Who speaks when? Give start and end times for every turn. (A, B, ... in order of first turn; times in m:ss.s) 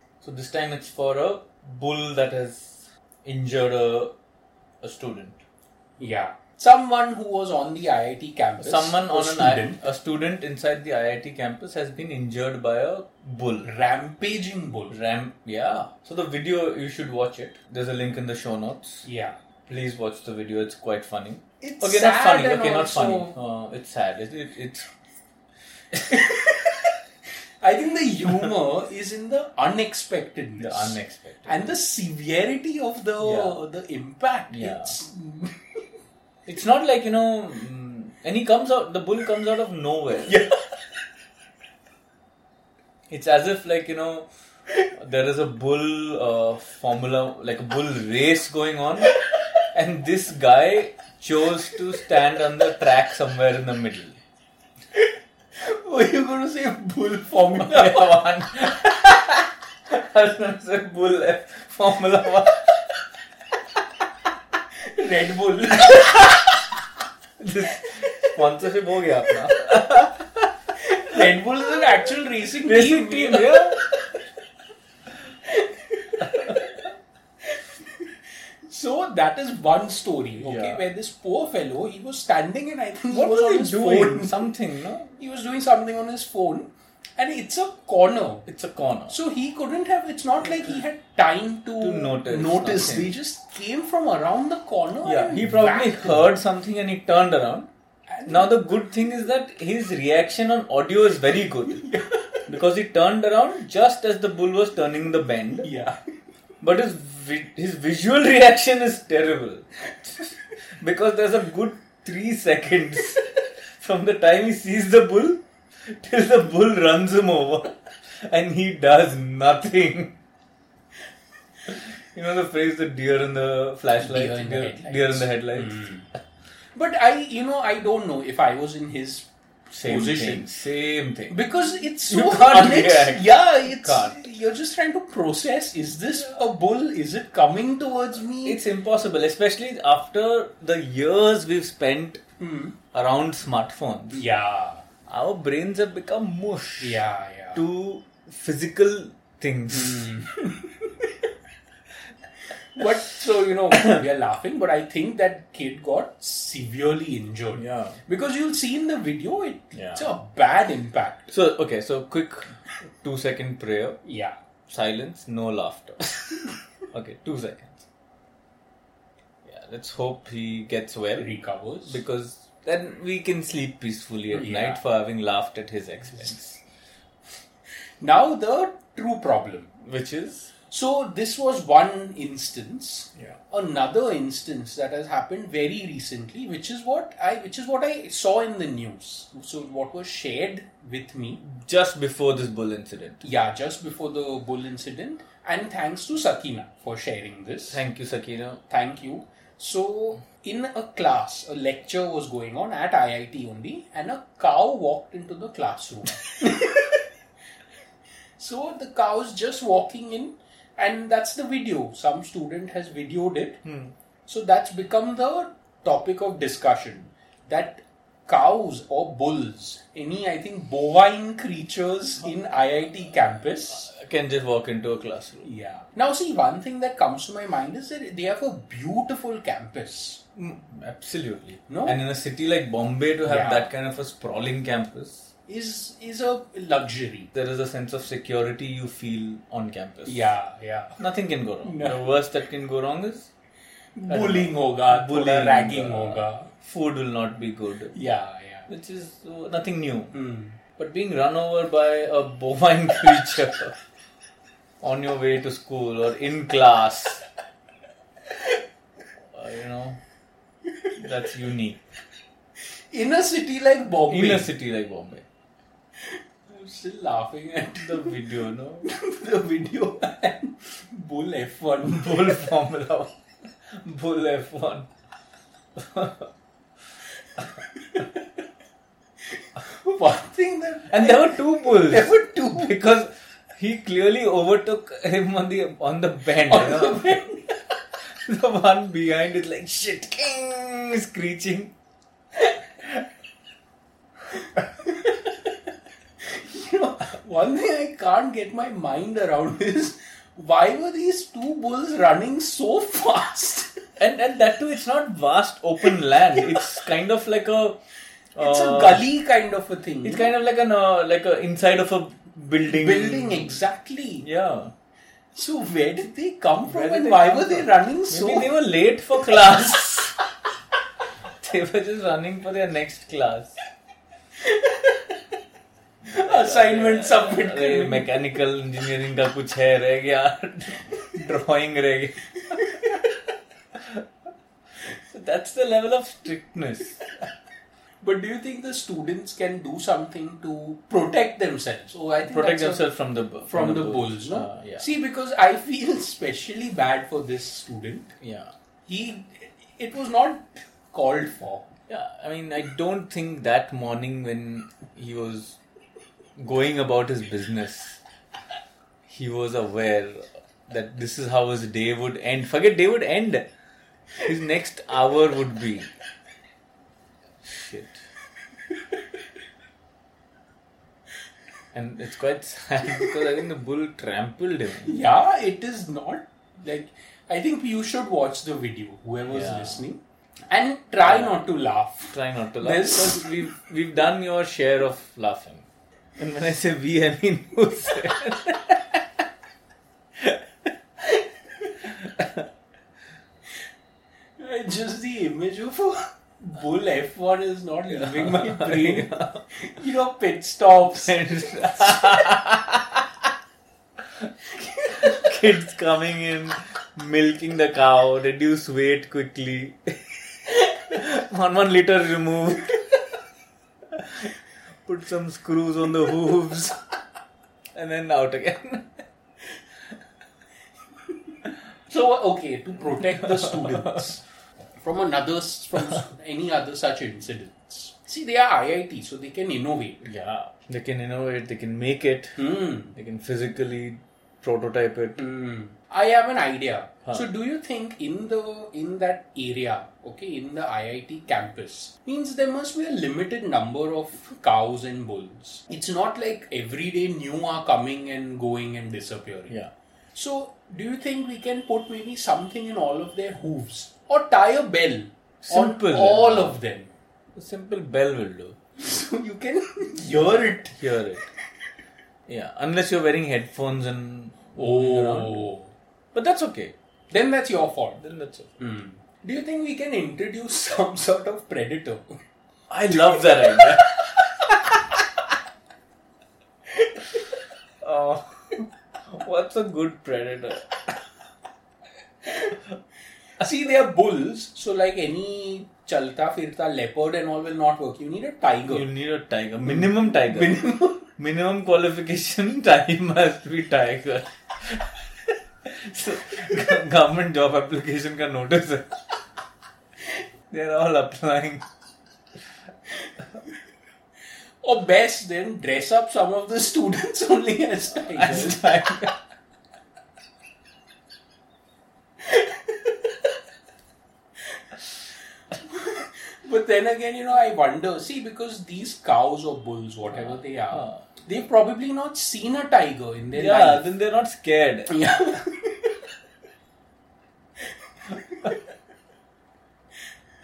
0:00.2-0:04.1 A
0:04.8-0:05.4 A
0:06.0-0:09.8 B
0:08.6-0:13.7 A
0:13.6-0:15.0 B
0:14.9-0:19.1 A
0:19.0-0:19.4 B
0:19.7-0:24.9 A
0:21.6-0:23.4 B
0:25.9-0:26.2 A
0:26.1-0:26.9 B
0:27.6-0:35.8 B
0:30.6-0:31.7 A
0:33.2-0:33.6 A
0:34.5-0:35.0 A
0:36.4-0:40.4 A
0:40.3-0:40.5 B
0:43.1-0:44.3 A
0:44.9-0:49.2 A
0:49.7-0:54.2 A
0:54.9-0:58.1 B
0:57.5-1:02.8 A
1:04.8-1:06.3 B
1:05.9-1:06.4 A
1:07.4-1:10.5 A
1:10.8-1:13.9 B
1:12.6-1:13.8 A
1:15.4-1:16.7 B
1:16.2-1:16.6 A
1:17.4-1:18.1 B
1:18.7-1:24.5 B
1:20.4-1:20.8 A
1:23.1-1:25.1 A
1:25.1-1:28.5 B
1:28.5-1:29.2 A
1:29.1-1:36.3 B
1:31.8-1:33.2 A
1:35.0-1:37.7 A
1:38.1-1:38.7 B
1:38.2-1:41.9 A
1:41.7-1:42.4 B
1:42.4-1:45.7 A
1:45.6-1:46.0 B
1:46.6-2:00.2 A
2:01.7-2:05.9 A
2:04.0-2:06.1 B
2:06.7-2:10.5 B
2:09.7-2:11.4 A
2:11.3-2:18.6 B
2:12.1-2:14.3 A
2:18.4-2:22.2 A
2:22.4-2:22.8 B
2:22.9-2:24.2 A
2:24.1-2:24.8 B
2:25.1-2:27.0 A
2:26.8-2:27.6 B
2:27.5-2:30.1 A
2:29.7-2:30.9 B
2:32.7-2:41.3 B
2:37.5-2:38.0 A
2:39.7-2:40.1 A
2:41.3-2:44.0 A
2:44.0-2:44.4 B
2:44.7-2:47.8 A
2:49.4-2:56.6 A
2:51.2-2:52.0 B
2:54.3-2:54.8 B
2:58.0-2:59.7 B
2:59.8-3:00.5 A
3:00.7-3:11.4 B
3:11.4-3:13.2 A
3:13.2-3:17.8 B
3:17.7-3:18.6 A
3:18.7-3:27.0 B
3:28.4-3:33.6 B
3:33.6-3:33.9 A
3:34.3-3:43.9 B
3:43.7-3:45.5 A
3:45.4-3:50.2 B
3:50.4-3:55.3 A
3:51.7-3:52.0 B
3:53.2-3:53.7 B
3:55.5-3:57.3 B
3:57.3-4:00.3 A
4:00.0-4:01.0 B
4:01.0-4:03.3 A
4:01.6-4:02.0 B
4:04.0-4:06.5 B
4:04.1-4:08.0 A
4:07.9-4:08.7 B
4:08.7-4:10.1 A
4:10.1-4:10.6 B
4:10.8-4:13.7 A
4:14.8-4:17.2 A
4:19.3-4:20.0 A
4:21.0-4:21.8 A
4:22.9-4:24.5 B
4:24.1-4:25.2 A
4:26.0-4:28.2 B
4:27.8-4:28.9 A
4:28.8-4:32.5 B
4:31.8-4:34.9 A
4:35.8-4:36.3 A
4:39.4-4:42.7 B
4:40.9-4:47.2 A
4:46.4-4:47.6 B
4:48.1-4:51.7 A
4:54.8-4:55.4 B
4:56.2-5:03.8 B
5:04.0-5:07.8 A
5:08.3-5:09.0 A
5:08.4-5:10.3 B
5:10.0-5:13.6 A
5:12.6-5:14.3 B
5:14.2-5:14.7 A
5:15.3-5:18.5 B
5:16.6-5:20.2 A
5:21.2-5:23.6 A
5:24.4-5:25.1 B
5:26.1-5:28.1 B
5:26.1-5:32.7 A
5:33.7-5:34.0 A
5:34.8-5:37.1 A
5:38.0-5:42.9 B
5:42.2-5:44.8 A
5:43.5-5:48.1 B
5:48.2-5:48.5 A
5:48.9-5:51.7 B
5:51.9-5:55.6 A
5:56.4-5:58.0 A
5:59.1-6:03.5 A
6:04.2-6:05.9 A
6:07.4-6:08.0 A
6:11.7-6:15.0 A
6:14.8-6:23.5 B
6:19.3-6:19.8 A
6:21.0-6:21.4 A
6:22.1-6:25.6 A
6:26.2-6:29.2 A
6:30.2-6:30.4 A
6:31.8-6:32.4 A
6:34.4-6:42.0 B
6:37.9-6:39.4 A
6:40.8-6:43.0 A
6:44.6-6:45.2 B
6:44.9-6:52.8 A
6:53.9-6:54.3 A
6:54.8-6:56.8 A
6:57.7-6:59.0 A
7:01.9-7:04.2 B
7:03.1-7:04.0 A
7:04.8-7:10.0 B
7:10.0-7:12.4 A
7:12.4-7:12.9 B
7:12.9-7:15.2 A
7:15.2-7:29.6 B
7:30.1-7:36.9 B
7:35.4-7:36.6 A
7:37.3-7:38.6 A
7:38.8-7:40.8 B
7:40.7-7:41.3 A
7:42.3-7:45.5 A
7:44.6-7:45.7 B
7:46.1-7:46.7 A
7:47.1-7:48.0 B
7:48.0-7:48.6 A
7:48.6-7:52.2 B
7:52.7-7:54.8 A
7:57.8-8:00.9 A
8:03.4-8:08.9 B
8:08.7-8:15.0 A
8:09.6-8:11.1 B
8:15.6-8:19.0 A
8:20.5-8:21.6 A
8:24.6-8:28.7 B
8:27.9-8:29.2 A
8:32.2-8:32.5 B
8:35.6-8:43.9 B
8:40.1-8:41.0 A
8:43.3-8:44.9 A
8:44.9-8:45.9 B